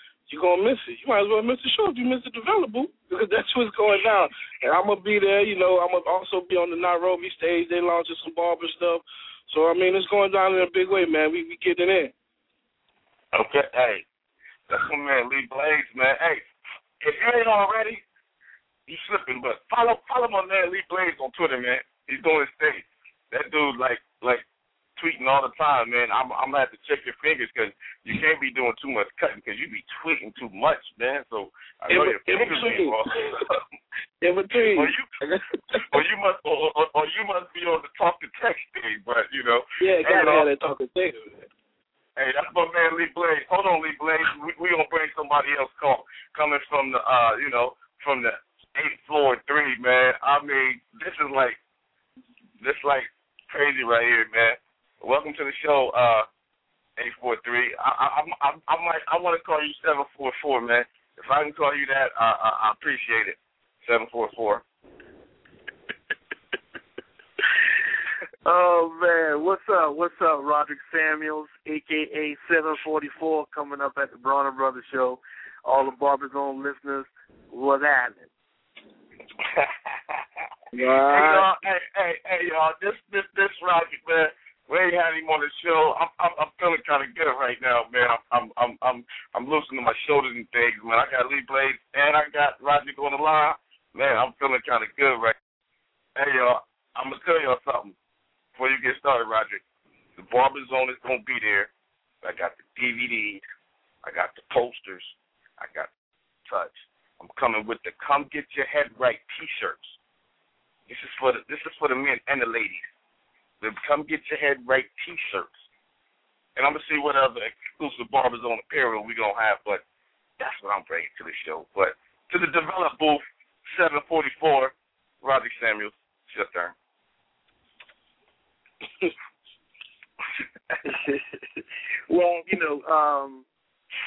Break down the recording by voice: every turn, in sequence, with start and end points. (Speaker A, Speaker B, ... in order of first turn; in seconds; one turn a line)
Speaker A: 0.3-12.1
Speaker B: 13.3-14.1
Speaker B: 14.7-16.4
Speaker B: 17.0-18.0
Speaker B: 18.9-24.4
Speaker B: 25.0-33.6
Speaker A: 31.9-33.4
Speaker A: 34.2-36.0
Speaker B: 34.6-35.1
Speaker B: 35.9-40.5
Speaker A: 39.8-41.5
Speaker B: 42.2-51.6
Speaker B: 52.6-56.3
Speaker B: 57.0-64.6
Speaker C: 68.5-78.3
Speaker A: 80.7-81.4
Speaker B: 81.0-95.4
Speaker B: 96.2-98.0
Speaker B: 98.6-99.6
Speaker B: 100.2-101.7
Speaker B: 102.2-103.4
Speaker B: 104.0-105.9
Speaker B: 106.5-110.0
Speaker B: 110.9-112.9
Speaker B: 113.6-115.5
Speaker B: 116.6-119.8
Speaker B: 120.4-126.7
Speaker C: 132.1-133.5